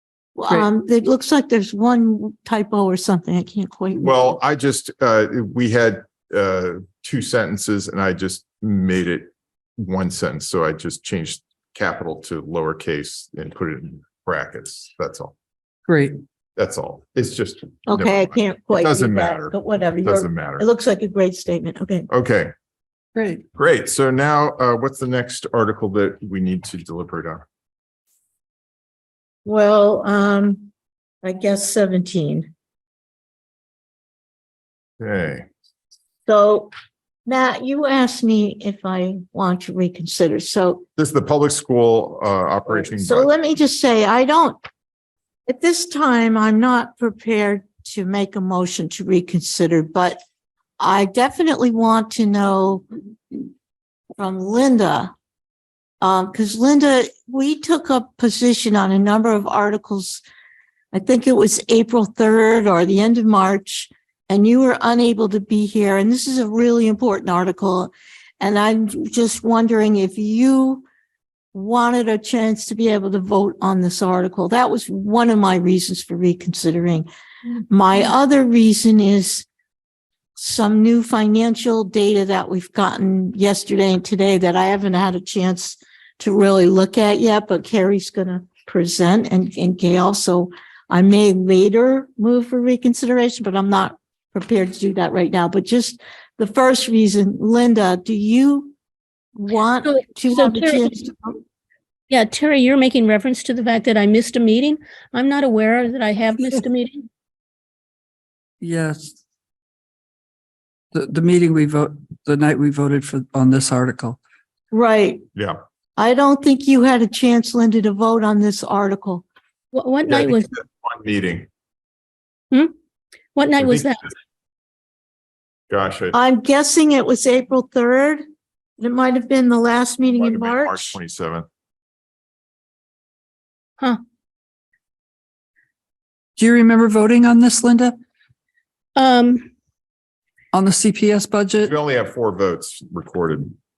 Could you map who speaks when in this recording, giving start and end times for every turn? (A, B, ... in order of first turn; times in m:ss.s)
0:00.4-0:04.3 A
0:04.0-0:15.3 B
0:15.9-0:16.2 C
0:16.6-0:20.6 B
0:17.9-0:22.1 A
0:22.1-0:22.5 B
0:23.2-0:23.4 C
0:23.5-0:27.4 B
0:29.4-0:30.7 A
0:31.2-0:32.5 A
0:35.0-0:35.5 B
0:36.2-0:36.7 A
0:37.2-0:40.8 A
0:41.0-0:43.3 B
0:42.8-0:44.6 A
0:45.5-0:50.2 A
0:50.8-0:53.5 A
0:54.2-0:55.1 A
0:56.0-1:00.2 A
1:00.9-1:10.8 A
1:11.5-1:17.1 A
1:17.7-1:19.5 A
1:20.4-1:38.7 A
1:39.4-1:41.4 A
1:39.8-1:40.9 D
1:42.1-1:47.0 D
1:48.6-1:49.2 C
1:50.9-1:54.2 C
1:54.7-1:55.2 A
1:56.0-1:59.2 A
1:59.7-2:00.5 D
2:00.1-2:01.5 B
2:03.3-2:04.0 D
2:03.6-2:03.9 B
2:05.7-2:06.2 B
2:06.1-2:08.2 A
2:08.8-2:11.0 A
2:10.1-2:11.5 B
2:16.4-2:18.0 C
2:19.0-2:19.5 D
2:20.5-2:21.7 C
2:21.6-2:23.5 B